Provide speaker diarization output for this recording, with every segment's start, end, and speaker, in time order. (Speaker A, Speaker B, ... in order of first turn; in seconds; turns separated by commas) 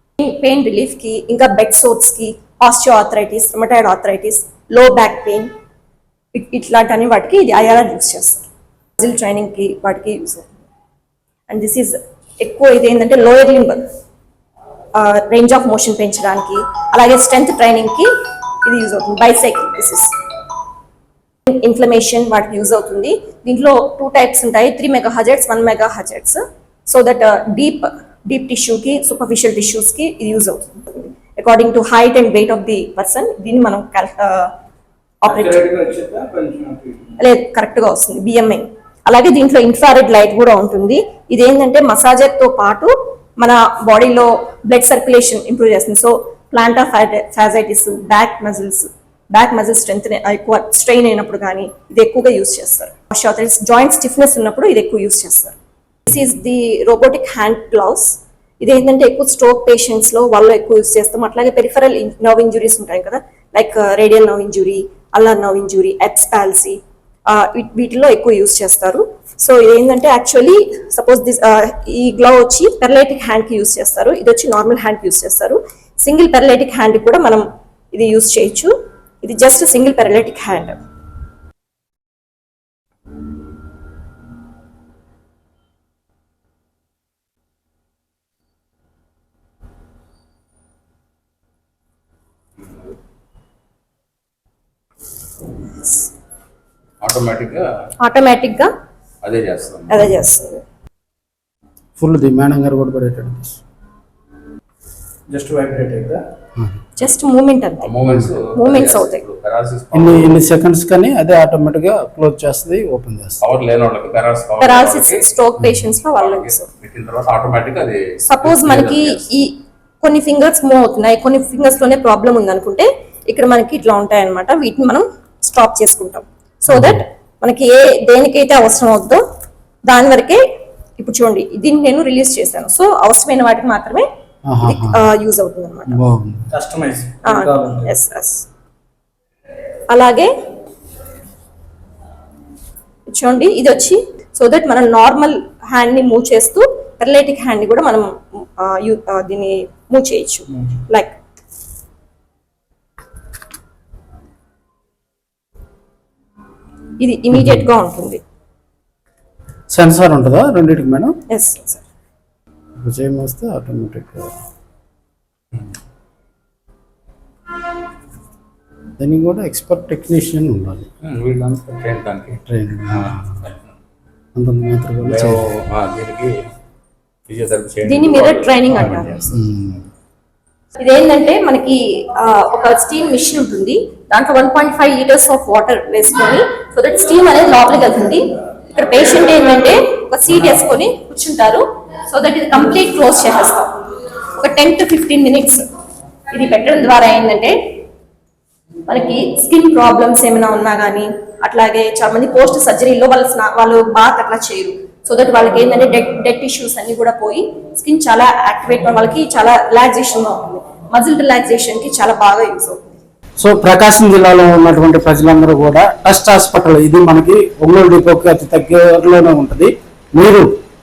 Speaker A: 0.2-5.5, Speaker A: 6.3-8.5, Speaker A: 9.0-10.5, Speaker A: 11.5-13.8, Speaker A: 14.9-18.1, Speaker A: 18.6-20.1, Speaker A: 21.5-34.5, Speaker A: 35.2-35.7, Speaker B: 35.2-37.2, Speaker A: 37.2-55.5, Speaker A: 56.1-78.7, Speaker A: 79.2-80.8, Speaker A: 95.8-96.1, Speaker C: 97.0-97.6, Speaker A: 98.0-98.7, Speaker C: 99.2-100.0, Speaker A: 99.9-100.6, Speaker D: 102.0-103.6, Speaker B: 105.3-106.2, Speaker A: 107.0-108.0, Speaker C: 107.8-110.4, Speaker A: 108.5-109.2, Speaker D: 109.9-113.4, Speaker C: 113.4-115.3, Speaker A: 114.6-116.7, Speaker C: 116.2-119.3, Speaker A: 118.3-129.2, Speaker D: 126.7-127.0, Speaker A: 129.8-130.4, Speaker A: 131.0-134.1, Speaker D: 134.5-135.0, Speaker A: 134.6-136.0, Speaker D: 135.9-136.4, Speaker B: 136.5-137.9, Speaker A: 137.2-138.4, Speaker A: 139.9-140.3, Speaker A: 143.1-151.1, Speaker A: 157.0-158.2, Speaker D: 159.7-161.2, Speaker A: 161.3-161.8, Speaker D: 162.8-164.3, Speaker D: 169.0-170.9, Speaker C: 171.0-173.2, Speaker D: 172.5-173.4, Speaker D: 174.3-175.4, Speaker C: 175.1-176.4, Speaker C: 177.3-179.2, Speaker A: 177.8-179.3, Speaker D: 179.3-179.8, Speaker A: 180.8-193.8, Speaker A: 194.4-195.7, Speaker A: 196.3-197.8, Speaker A: 198.9-212.8, Speaker D: 213.4-220.5